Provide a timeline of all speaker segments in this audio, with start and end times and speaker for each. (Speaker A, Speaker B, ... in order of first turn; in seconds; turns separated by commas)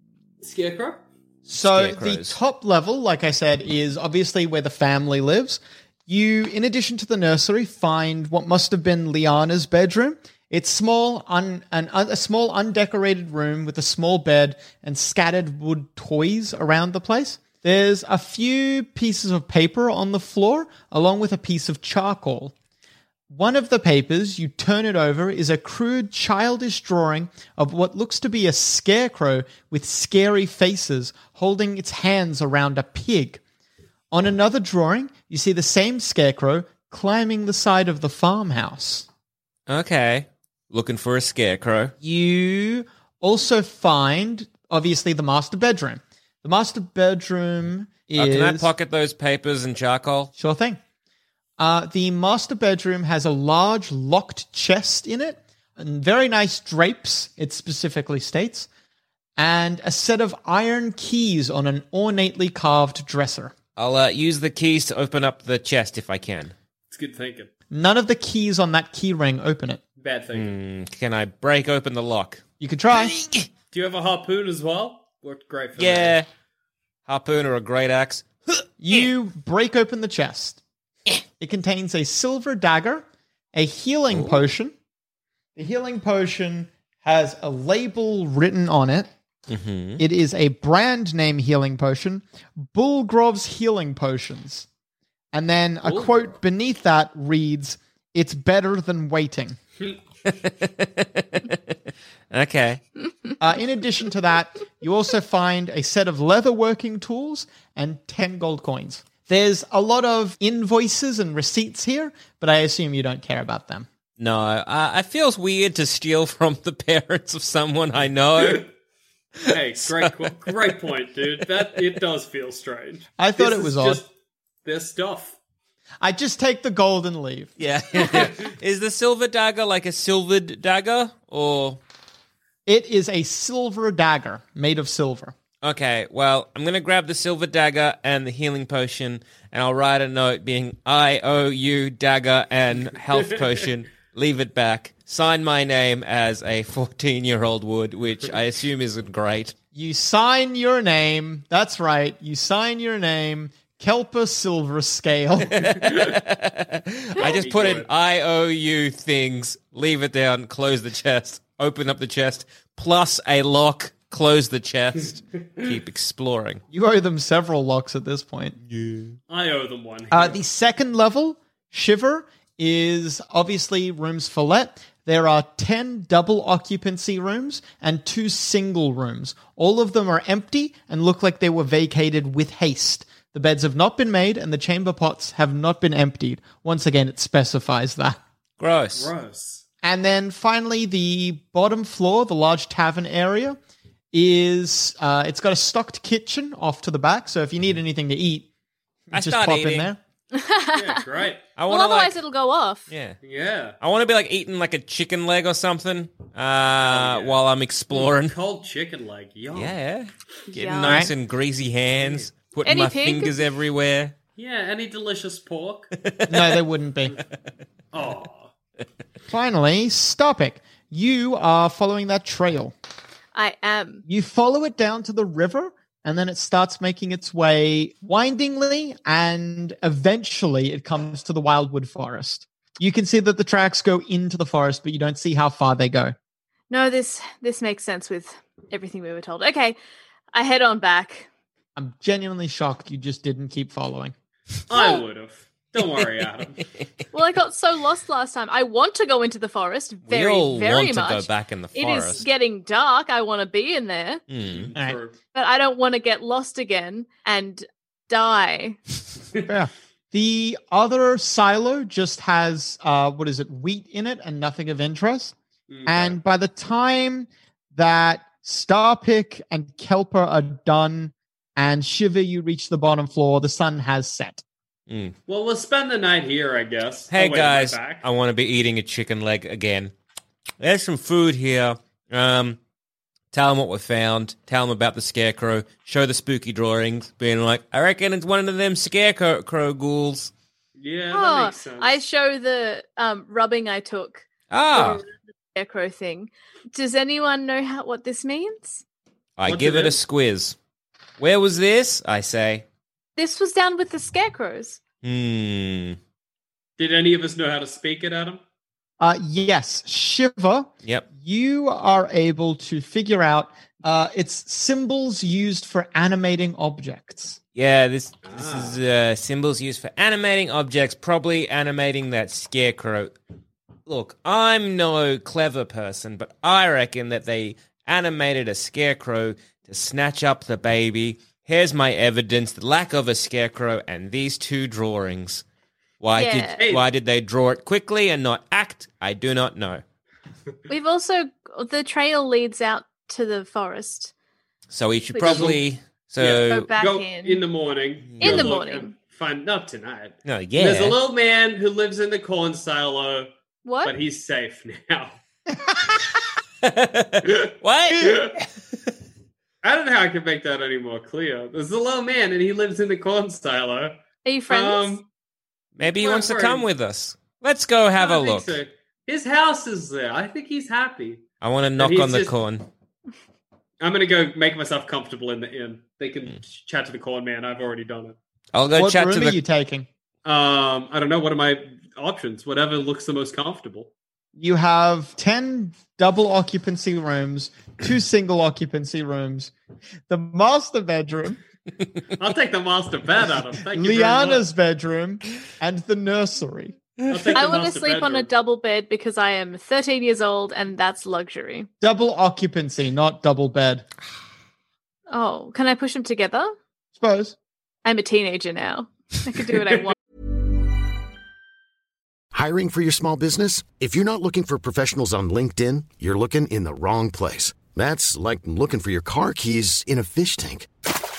Speaker A: 0.4-1.0, Speaker B: 1.4-2.4, Speaker C: 1.5-22.5, Speaker C: 23.3-33.4, Speaker C: 34.1-39.1, Speaker B: 39.7-41.9, Speaker C: 42.0-48.7, Speaker B: 48.2-50.3, Speaker C: 50.4-50.8, Speaker C: 51.6-58.7, Speaker C: 59.4-63.5, Speaker B: 63.8-66.5, Speaker A: 66.9-67.5, Speaker C: 67.7-69.8, Speaker A: 70.0-70.5, Speaker B: 70.3-72.4, Speaker C: 72.6-73.2, Speaker B: 73.0-73.5, Speaker A: 73.7-76.2, Speaker B: 75.8-76.3, Speaker B: 77.1-79.0, Speaker C: 78.8-80.6, Speaker C: 81.4-84.7, Speaker B: 84.1-84.4, Speaker C: 85.5-89.1, Speaker B: 89.5-90.0, Speaker C: 90.0-94.7, Speaker C: 95.3-99.6, Speaker A: 95.8-96.2, Speaker B: 100.3-101.8, Speaker B: 102.3-102.8, Speaker C: 103.4-113.9, Speaker B: 114.2-118.6, Speaker A: 118.4-118.6, Speaker B: 119.3-120.1, Speaker A: 119.5-124.1, Speaker C: 123.2-124.0, Speaker A: 124.6-125.3, Speaker C: 126.0-127.5, Speaker B: 127.6-131.8, Speaker C: 132.7-135.3, Speaker B: 135.6-149.6, Speaker C: 149.7-155.7, Speaker B: 155.5-166.6, Speaker A: 155.8-156.1, Speaker A: 157.2-157.9, Speaker C: 166.7-168.6, Speaker B: 168.7-169.1, Speaker A: 169.3-170.4, Speaker C: 170.1-188.2, Speaker B: 188.6-189.1, Speaker A: 188.9-189.6, Speaker C: 189.8-193.6, Speaker C: 194.1-198.5, Speaker B: 199.1-199.9, Speaker C: 199.1-200.0, Speaker D: 200.3-201.0, Speaker A: 200.7-201.4, Speaker B: 201.6-202.2, Speaker D: 201.7-202.9, Speaker B: 202.9-203.2, Speaker A: 203.2-203.8, Speaker B: 203.8-208.3, Speaker A: 206.8-207.4, Speaker A: 207.9-209.8, Speaker B: 209.5-214.1, Speaker D: 210.5-211.0, Speaker C: 210.8-211.1, Speaker A: 212.0-212.3, Speaker D: 212.6-213.4, Speaker A: 214.4-215.9, Speaker B: 215.9-216.5, Speaker C: 216.3-217.2, Speaker A: 217.9-218.5, Speaker C: 219.3-222.7, Speaker D: 223.3-224.0, Speaker C: 224.1-236.1, Speaker D: 236.7-239.8, Speaker D: 240.3-241.3, Speaker C: 241.8-244.1, Speaker A: 244.7-246.6, Speaker D: 244.7-245.0, Speaker B: 246.6-246.9, Speaker D: 247.1-254.2, Speaker B: 250.1-252.2, Speaker B: 254.3-254.7, Speaker A: 254.4-255.2, Speaker D: 255.3-258.8, Speaker C: 259.4-265.3, Speaker A: 265.7-266.2, Speaker C: 265.9-274.4, Speaker B: 274.9-275.1, Speaker A: 275.3-278.1, Speaker B: 277.1-279.9, Speaker B: 280.6-282.6, Speaker B: 283.3-290.3, Speaker A: 290.8-292.0, Speaker D: 291.1-298.8, Speaker B: 294.5-295.0, Speaker B: 299.4-300.6, Speaker A: 299.4-300.0, Speaker B: 301.2-302.6, Speaker D: 303.2-304.8, Speaker B: 305.0-306.0, Speaker A: 306.8-308.4, Speaker C: 309.0-317.4, Speaker B: 317.5-323.1, Speaker A: 318.2-318.8, Speaker B: 323.9-335.4, Speaker B: 336.0-339.8, Speaker D: 336.1-336.6, Speaker A: 336.6-336.9, Speaker D: 340.7-344.1, Speaker B: 344.7-346.7, Speaker D: 345.2-345.4, Speaker A: 345.2-345.6, Speaker A: 346.2-353.3, Speaker D: 346.5-347.4, Speaker B: 348.1-348.6, Speaker D: 348.2-348.9, Speaker B: 350.2-351.0, Speaker D: 353.6-353.9, Speaker A: 353.8-355.2, Speaker B: 356.6-358.4, Speaker A: 357.2-358.3, Speaker A: 359.6-364.0, Speaker D: 364.2-365.0, Speaker A: 364.5-365.1, Speaker B: 365.8-368.6, Speaker A: 365.8-366.7, Speaker A: 367.9-371.2, Speaker B: 371.4-372.7, Speaker A: 371.8-372.3, Speaker A: 373.8-378.1, Speaker B: 378.5-379.4, Speaker C: 378.7-379.9, Speaker A: 380.2-383.9, Speaker C: 384.4-389.5, Speaker C: 390.1-391.4, Speaker A: 392.2-394.4, Speaker C: 393.7-396.8, Speaker B: 397.0-397.4, Speaker A: 397.1-398.3, Speaker D: 397.3-401.7, Speaker C: 401.8-403.8, Speaker D: 405.1-406.5, Speaker C: 406.9-407.4, Speaker D: 407.8-409.9, Speaker E: 412.3-420.7